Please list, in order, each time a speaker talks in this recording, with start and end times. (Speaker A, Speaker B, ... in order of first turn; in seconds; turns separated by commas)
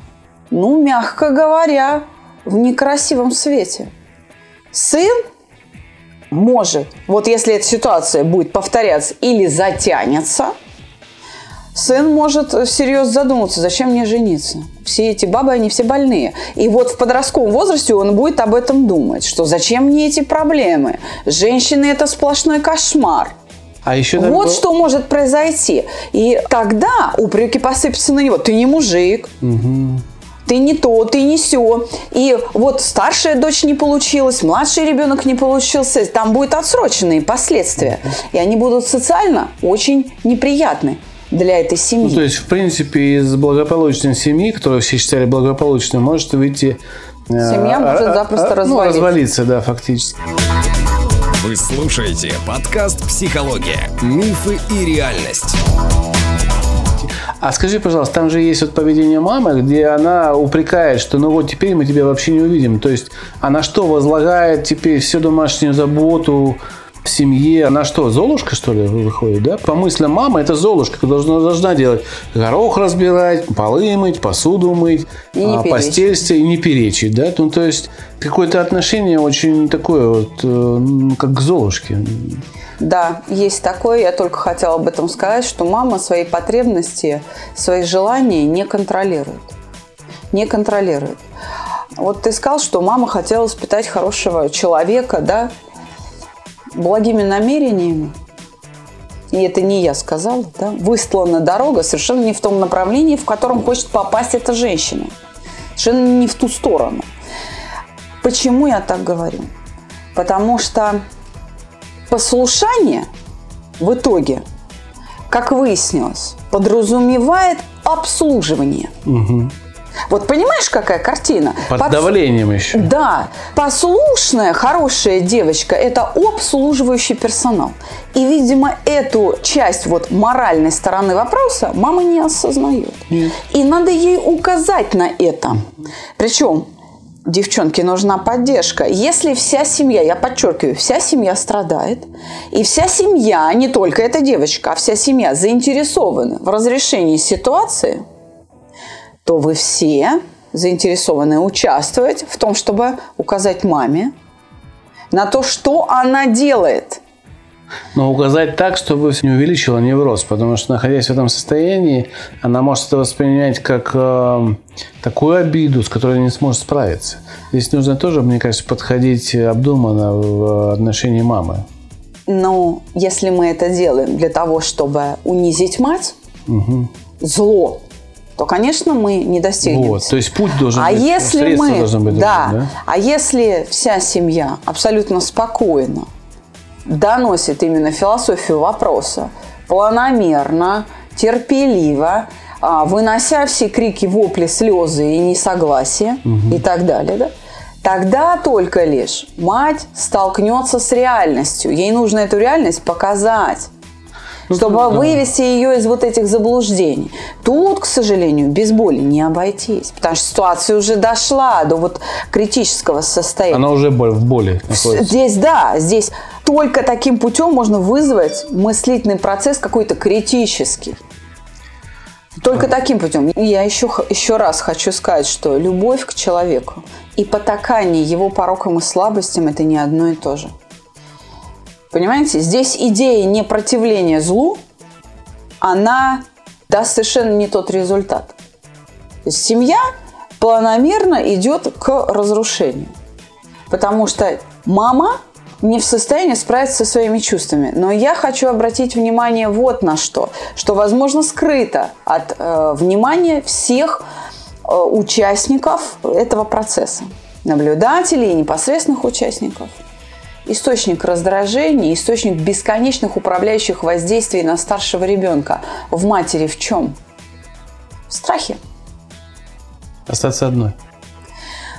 Speaker A: 0.5-3.9, Speaker A: 4.7-5.2, Speaker A: 6.3-10.5, Speaker A: 11.7-23.3, Speaker B: 23.8-24.6, Speaker A: 24.1-29.3, Speaker B: 29.4-30.0, Speaker A: 30.4-42.2, Speaker B: 42.0-50.1, Speaker A: 47.4-49.1, Speaker C: 51.4-55.6, Speaker B: 57.0-82.4, Speaker A: 75.3-76.1, Speaker A: 82.8-89.5, Speaker A: 90.3-91.2, Speaker A: 92.0-95.5, Speaker A: 96.7-98.1, Speaker A: 99.3-105.1, Speaker A: 105.8-107.1, Speaker A: 108.2-109.5, Speaker A: 110.1-111.0, Speaker A: 112.1-113.1, Speaker A: 113.8-114.4, Speaker A: 115.3-118.9, Speaker B: 119.0-119.5, Speaker A: 120.1-122.1, Speaker B: 121.7-122.9, Speaker A: 122.7-135.7, Speaker A: 136.2-136.7, Speaker A: 137.2-148.0, Speaker A: 149.2-154.1, Speaker A: 155.1-157.0, Speaker B: 157.9-171.7, Speaker A: 172.3-176.1, Speaker B: 176.5-176.9, Speaker A: 177.2-177.8, Speaker A: 178.4-180.1, Speaker B: 179.6-182.7, Speaker A: 180.7-186.1, Speaker A: 186.8-197.3, Speaker B: 196.3-196.6, Speaker A: 197.8-203.7, Speaker B: 204.5-205.2, Speaker A: 204.5-213.6, Speaker B: 213.5-215.1, Speaker A: 214.7-221.0, Speaker A: 222.4-230.5, Speaker A: 231.9-234.6, Speaker A: 235.6-238.3, Speaker A: 239.2-239.8, Speaker A: 240.4-242.9, Speaker A: 243.7-254.0, Speaker A: 254.6-259.8, Speaker A: 260.4-266.9, Speaker A: 268.1-268.6, Speaker B: 270.1-270.8